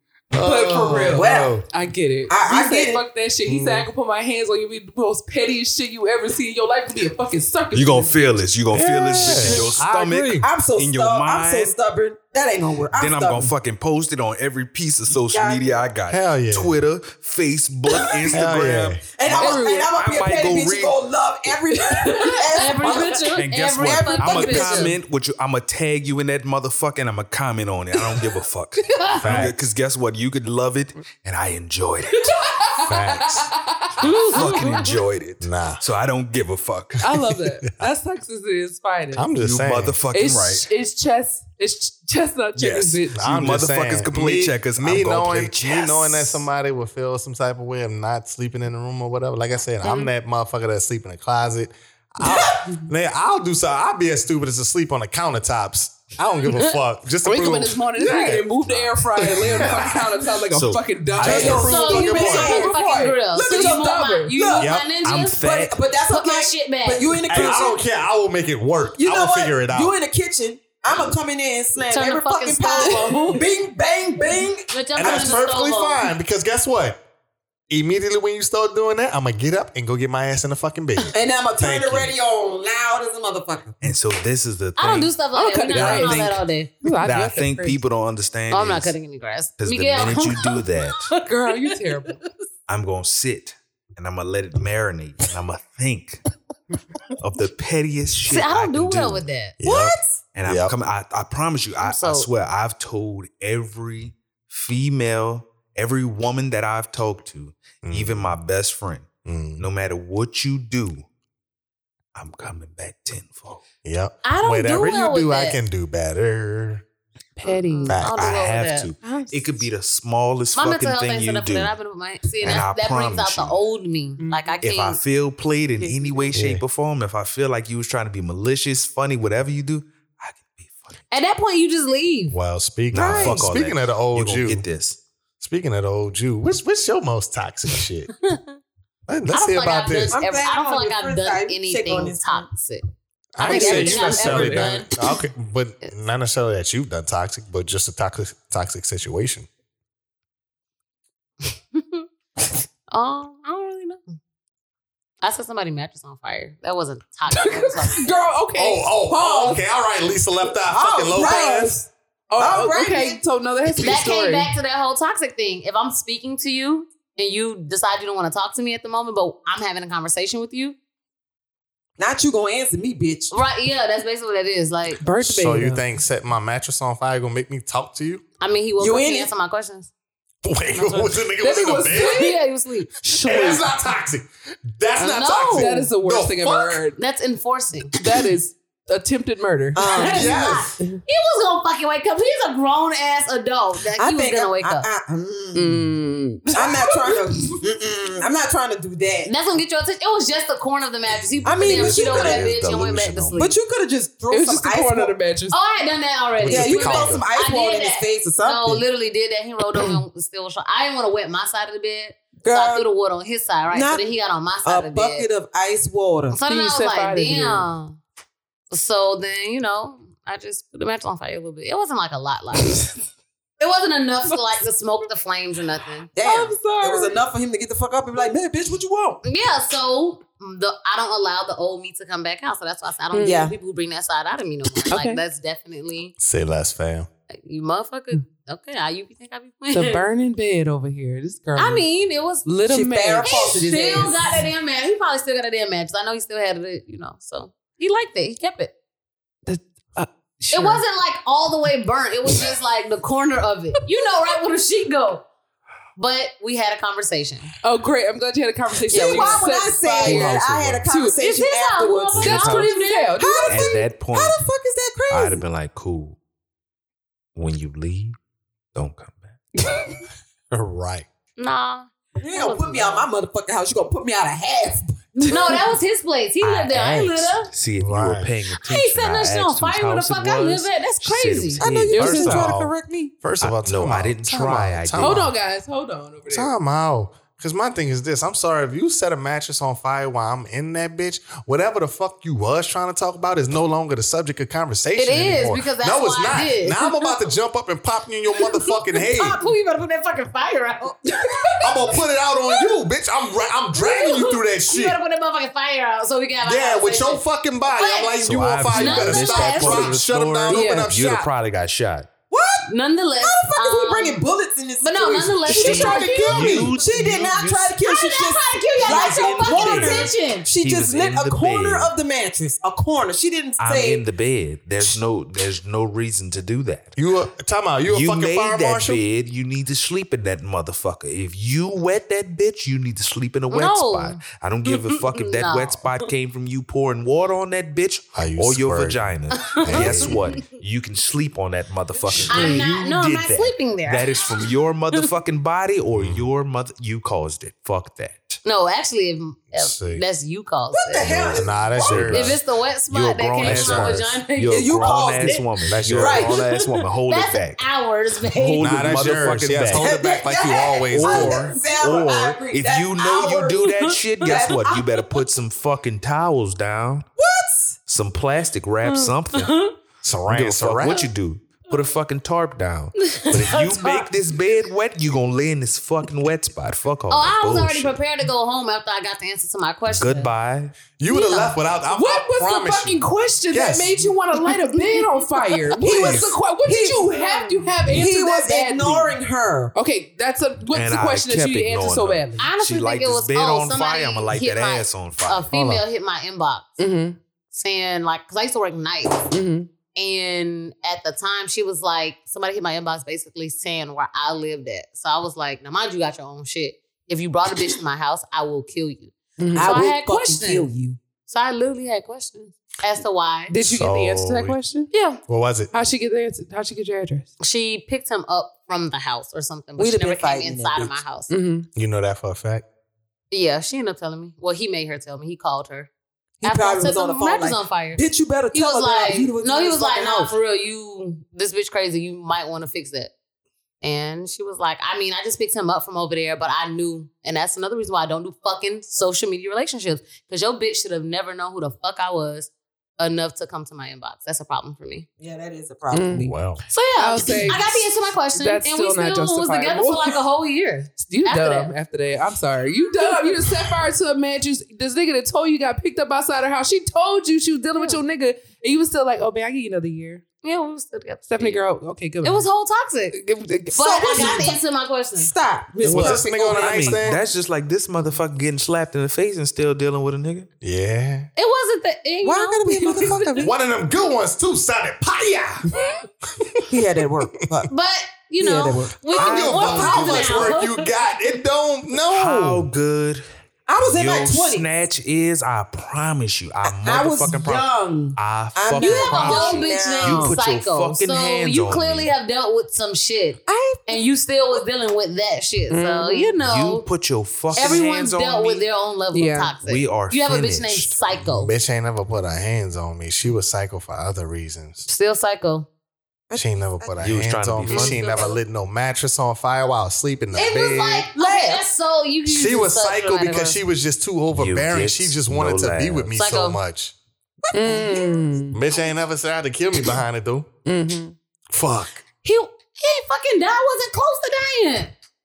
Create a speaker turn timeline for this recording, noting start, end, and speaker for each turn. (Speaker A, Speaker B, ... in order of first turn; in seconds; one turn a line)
Speaker A: 0.3-1.6
Speaker B: 0.4-8.2
Speaker C: 1.1-1.6
Speaker C: 2.3-3.0
Speaker A: 3.5-3.9
Speaker D: 7.7-11.7
Speaker A: 8.7-10.4
Speaker C: 9.3-13.5
Speaker B: 9.3-9.8
Speaker D: 12.9-20.9
Speaker C: 15.2-15.8
Speaker A: 16.1-16.7
Speaker A: 18.3-19.0
Speaker C: 19.1-24.9
Speaker B: 19.3-19.9
Speaker B: 22.0-23.0
Speaker E: 22.2-25.0
Speaker D: 23.3-32.4
Speaker B: 28.0-29.5
Speaker A: 29.2-29.5
Speaker B: 32.1-35.0
Speaker A: 32.8-33.5
Speaker E: 34.0-34.9
Speaker D: 34.0-37.0
Speaker A: 35.4-35.8
Speaker B: 37.0-39.3
Speaker A: 39.1-40.0
Speaker D: 39.4-40.7
Speaker B: 40.1-43.2
Speaker D: 42.5-46.5
Speaker A: 43.1-60.1
Speaker B: 49.8-50.1
Speaker C: 52.2-52.7
Speaker B: 57.2-64.3
Speaker D: 59.4-61.6
Speaker A: 61.1-62.6
Speaker C: 61.2-64.8
Speaker E: 61.5-65.4
Speaker A: 64.6-64.9
Speaker D: 65.0-65.7
Speaker C: 65.3-67.8
Speaker E: 66.1-67.5
Speaker A: 67.3-70.0
Speaker C: 69.0-75.4
Speaker E: 71.8-73.5
Speaker B: 72.7-73.4
Speaker E: 74.7-76.1
Speaker A: 75.0-77.0
Speaker A: 77.7-82.1
Speaker C: 81.1-83.8
Speaker D: 83.8-86.5
Speaker E: 84.8-86.8
Speaker B: 85.3-86.3
Speaker B: 86.8-87.8
Speaker D: 87.0-88.9
Speaker E: 88.5-92.1
Speaker D: 89.6-91.1
Speaker B: 91.2-92.2
Speaker D: 92.7-96.2
Speaker D: 97.2-99.2
Speaker E: 98.3-99.5
Speaker A: 99.6-100.7
Speaker C: 99.6-100.2
Speaker D: 100.3-111.0
Speaker E: 101.8-102.3
Speaker A: 107.8-108.3
Speaker A: 109.2-109.6
Speaker D: 112.1-113.6
Speaker A: 113.8-116.8
Speaker E: 114.2-115.6
Speaker B: 117.3-118.1
Speaker E: 117.5-118.9
Speaker A: 117.8-118.3
Speaker D: 118.1-121.7
Speaker B: 119.0-119.7
Speaker E: 120.5-125.0
Speaker D: 122.4-123.6
Speaker B: 124.2-124.6
Speaker D: 124.6-130.9
Speaker B: 125.8-126.3
Speaker A: 126.3-126.6
Speaker E: 131.1-132.3
Speaker A: 132.3-134.6
Speaker D: 132.9-135.0
Speaker C: 132.9-133.5
Speaker A: 135.4-138.1
Speaker A: 139.1-140.2
Speaker E: 139.3-142.8
Speaker C: 140.1-142.5
Speaker A: 143.3-149.5
Speaker E: 143.4-144.9
Speaker B: 143.4-144.6
Speaker C: 143.6-143.9
Speaker E: 151.7-152.0
Speaker E: 152.9-154.0
Speaker E: 155.2-158.2
Speaker B: 157.3-159.6
Speaker A: 158.6-161.8
Speaker C: 160.7-163.2
Speaker B: 162.3-164.5
Speaker E: 163.8-170.8
Speaker C: 172.0-173.3
Speaker E: 173.3-175.0
Speaker B: 174.9-175.9
Speaker A: 175.2-178.2
Speaker E: 178.4-179.9
Speaker C: 178.8-179.3
Speaker A: 180.4-182.2
Speaker E: 180.7-181.1
Speaker B: 181.4-182.4
Speaker E: 181.9-182.9
Speaker B: 183.0-183.7
Speaker A: 183.2-186.8
Speaker E: 185.0-185.8
Speaker B: 185.5-187.0
Speaker E: 187.0-187.9
Speaker B: 187.9-190.2
Speaker C: 189.7-190.3
Speaker E: 189.8-194.9
Speaker A: 190.0-190.7
Speaker C: 193.9-195.8
Speaker B: 195.5-197.6
Speaker C: 196.5-199.3
Speaker E: 199.2-203.6
Speaker C: 201.4-202.6
Speaker A: 201.4-203.4
Speaker D: 202.0-203.2
Speaker C: 203.3-205.1
Speaker B: 204.3-205.6
Speaker E: 205.5-215.3
Speaker A: 206.4-207.2
Speaker C: 206.4-208.8
Speaker C: 212.4-212.9
Speaker C: 213.7-214.0
Speaker C: 214.6-216.4
Speaker E: 216.3-218.0
Speaker B: 216.5-217.7
Speaker E: 218.7-222.9
Speaker B: 222.6-222.9
Speaker E: 223.6-226.1
Speaker C: 226.1-229.2
Speaker B: 226.2-227.2
Speaker E: 229.2-236.1
Speaker B: 233.1-233.5
Speaker C: 233.2-233.5
Speaker B: 234.9-235.2
Speaker A: 236.2-237.1
Speaker E: 237.3-240.0
Speaker B: 239.7-241.8
Speaker E: 241.6-242.5
Speaker B: 242.4-244.4
Speaker C: 242.7-244.4
Speaker E: 243.2-248.7
Speaker B: 249.4-250.8
Speaker E: 250.5-255.2
Speaker B: 252.3-252.5
Speaker E: 255.9-257.5
Speaker B: 257.6-261.2
Speaker E: 258.9-259.8
Speaker C: 258.9-262.6
Speaker D: 260.0-260.8
Speaker E: 261.2-263.1
Speaker D: 262.2-262.7
Speaker B: 262.2-263.8
Speaker C: 263.2-265.4
Speaker D: 263.5-264.4
Speaker D: 265.1-266.2
Speaker D: 267.3-268.1
Speaker D: 268.7-269.4
Speaker B: 269.6-269.9
Speaker A: 270.5-271.1
Speaker E: 271.4-273.1
Speaker C: 272.2-275.6
Speaker E: 275.2-277.5
Speaker D: 276.4-282.5
Speaker A: 277.8-278.3
Speaker E: 278.5-281.6
Speaker C: 281.6-283.1
Speaker B: 281.9-282.5
Speaker A: 282.2-285.3
Speaker D: 283.4-285.3
Speaker B: 285.0-286.5
Speaker A: 286.3-299.4
Speaker E: 295.0-296.9
Speaker E: 298.9-302.6
Speaker B: 301.0-301.8
Speaker A: 301.6-305.0
Speaker E: 303.7-310.0
Speaker A: 306.4-311.2
Speaker D: 308.2-312.1
Speaker B: 310.5-311.2
Speaker C: 312.3-324.0
Speaker E: 312.7-314.2
Speaker E: 314.8-316.8
Speaker D: 315.5-317.8
Speaker E: 317.8-320.5
Speaker D: 318.8-321.9
Speaker D: 323.6-326.9
Speaker A: 326.9-329.0
Speaker D: 327.9-348.4
Speaker E: 333.5-336.1
Speaker A: 338.1-340.4
Speaker E: 339.4-340.4
Speaker E: 342.3-345.1
Speaker B: 342.3-342.6
Speaker A: 345.9-346.3
Speaker E: 348.4-355.5
Speaker A: 349.5-350.0
Speaker C: 350.7-352.1
Speaker A: 351.1-352.4
Speaker D: 351.8-357.6
Speaker A: 353.4-354.1
Speaker C: 354.5-355.4
Speaker A: 355.7-356.2
Speaker C: 355.9-356.4
Speaker E: 356.0-359.1
Speaker D: 358.2-359.9
Speaker A: 358.6-361.6
Speaker C: 359.7-365.0
Speaker D: 360.9-367.1
Speaker E: 363.9-364.4
Speaker C: 367.2-367.8
Speaker D: 367.9-369.5
Speaker E: 368.8-369.7
Speaker A: 370.0-371.0
Speaker D: 370.3-378.0
Speaker E: 373.0-374.1
Speaker E: 377.1-380.3
Speaker D: 379.9-380.7
Speaker A: 381.0-384.0
Speaker E: 381.1-381.5
Speaker B: 381.1-389.1
Speaker C: 385.8-387.2
Speaker E: 387.1-387.7
Speaker C: 387.9-389.7
Speaker B: 389.7-392.5
Speaker D: 390.7-395.5
Speaker E: 392.4-396.8
Speaker B: 396.8-397.2
Speaker E: 397.5-399.3
Speaker B: 399.3-399.7
Speaker E: 399.9-410.7
Speaker B: 409.4-409.8
Speaker C: 409.5-411.0
Speaker E: 411.3-413.6
Speaker B: 413.5-415.2
Speaker A: 413.6-414.6
Speaker A: 415.3-415.7
Speaker B: 415.7-417.3
Speaker E: 417.4-421.3
Speaker C: 419.8-421.0
Speaker B: 421.3-421.7
Speaker A: 421.7-422.6
Speaker E: 423.3-425.9
Speaker C: 426.4-430.3
Speaker E: 426.4-433.1
Speaker E: 433.8-445.1
Speaker C: 445.2-446.3
Speaker B: 445.9-446.4
Speaker A: 446.2-446.6
Speaker E: 446.7-451.7
Speaker B: 446.9-450.2
Speaker B: 451.0-460.2
Speaker E: 457.8-458.0
Speaker E: 460.4-461.6
Speaker B: 461.3-462.5
Speaker E: 462.2-463.1
Speaker B: 463.1-464.5
Speaker E: 463.7-465.3
Speaker C: 463.8-464.6
Speaker C: 465.1-467.2
Speaker A: 465.8-467.2
Speaker D: 465.8-470.5
Speaker A: 470.6-471.3
Speaker E: 471.4-473.5
Speaker C: 472.2-473.5
Speaker A: 473.4-475.7
Speaker C: 476.7-477.7
Speaker E: 477.7-480.9
Speaker C: 478.4-480.6
Speaker A: 479.1-482.7
Speaker D: 482.0-483.2
Speaker C: 483.7-484.7
Speaker D: 483.8-492.1
Speaker C: 486.6-490.4
Speaker E: 488.8-496.9
Speaker C: 493.5-494.0
Speaker B: 495.7-496.4
Speaker D: 496.4-498.6
Speaker E: 497.5-501.5
Speaker B: 499.1-499.6
Speaker D: 499.6-501.3
Speaker A: 501.3-504.9
Speaker E: 504.8-505.7
Speaker C: 506.3-507.1
Speaker A: 506.3-511.1
Speaker D: 507.0-508.0
Speaker C: 507.7-508.3
Speaker E: 507.7-508.4
Speaker E: 510.3-513.6
Speaker C: 511.2-511.6
Speaker A: 512.3-516.9
Speaker D: 514.3-516.1
Speaker E: 516.1-516.6
Speaker C: 517.4-518.3
Speaker B: 517.5-518.6
Speaker A: 518.5-520.5
Speaker B: 520.6-521.1
Speaker A: 521.5-522.0
Speaker E: 522.2-524.9